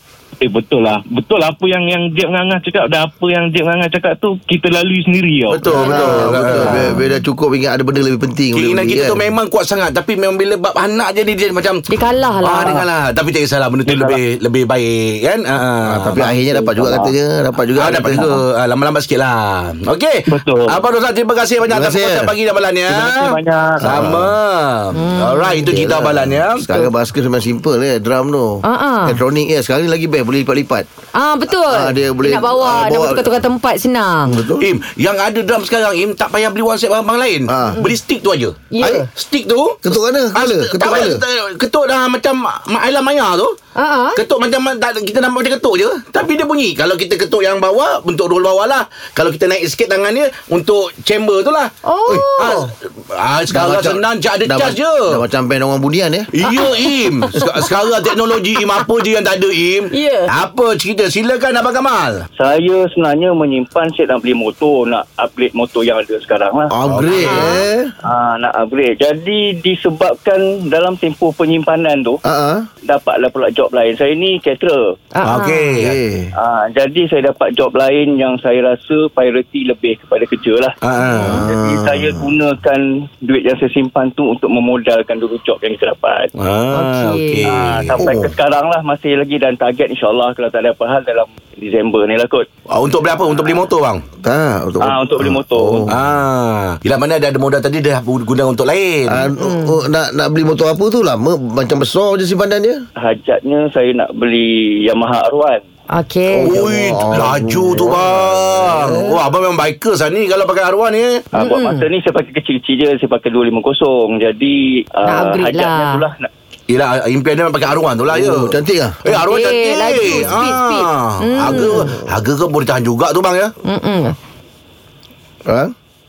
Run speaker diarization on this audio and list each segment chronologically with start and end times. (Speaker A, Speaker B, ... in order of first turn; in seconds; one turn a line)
Speaker A: 0.4-5.8
Speaker B: 5.5-6.9
Speaker C: 5.7-9.3
Speaker D: 5.8-7.1
Speaker B: 8.5-11.8
Speaker D: 11.9-12.8
Speaker B: 12.4-16.4
Speaker A: 13.9-14.2
Speaker C: 15.9-18.4
Speaker B: 17.8-26.7
Speaker A: 20.3-20.8
Speaker C: 21.7-22.3
Speaker A: 22.9-23.8
Speaker C: 23.9-24.3
Speaker D: 24.9-25.7
Speaker C: 25.7-30.9
Speaker D: 28.6-29.2
Speaker D: 31.1-34.4
Speaker C: 31.7-33.3
Speaker C: 34.3-34.7
Speaker B: 34.6-38.6
Speaker C: 37.5-37.8
Speaker D: 38.7-39.1
Speaker B: 39.1-39.8
Speaker C: 39.8-41.2
Speaker B: 40.4-43.5
Speaker D: 43.8-44.2
Speaker B: 44.2-55.2
Speaker D: 51.9-52.7
Speaker C: 53.5-56.3
Speaker B: 56.3-62.2
Speaker D: 56.4-57.0
Speaker D: 59.9-60.3
Speaker E: 62.4-66.8
Speaker C: 66.7-67.9
Speaker B: 66.9-67.5
Speaker D: 67.2-67.7
Speaker E: 68.0-72.2
Speaker C: 72.2-72.7
Speaker E: 72.9-74.8
Speaker D: 75.2-75.8
Speaker B: 75.2-76.0
Speaker C: 75.8-76.3
Speaker E: 76.3-80.8
Speaker B: 80.8-81.5
Speaker C: 81.2-82.2
Speaker D: 81.2-81.4
Speaker E: 81.4-86.3
Speaker B: 86.4-88.0
Speaker D: 86.7-87.5
Speaker E: 87.5-92.5
Speaker C: 88.0-88.3
Speaker B: 92.7-94.0
Speaker C: 94.2-96.1
Speaker E: 94.8-95.9
Speaker B: 95.9-99.2
Speaker C: 99.1-102.8
Speaker D: 99.3-99.8
Speaker E: 103.0-105.7
Speaker D: 105.9-106.6
Speaker C: 106.3-109.2
Speaker B: 106.5-111.2
Speaker E: 111.3-116.3
Speaker D: 111.4-111.8
Speaker D: 115.1-116.0
Speaker B: 116.7-118.5
Speaker C: 118.1-119.0
Speaker B: 119.0-123.5
Speaker D: 119.1-121.9
Speaker C: 121.5-121.8
Speaker D: 123.7-124.2
Speaker C: 125.5-125.7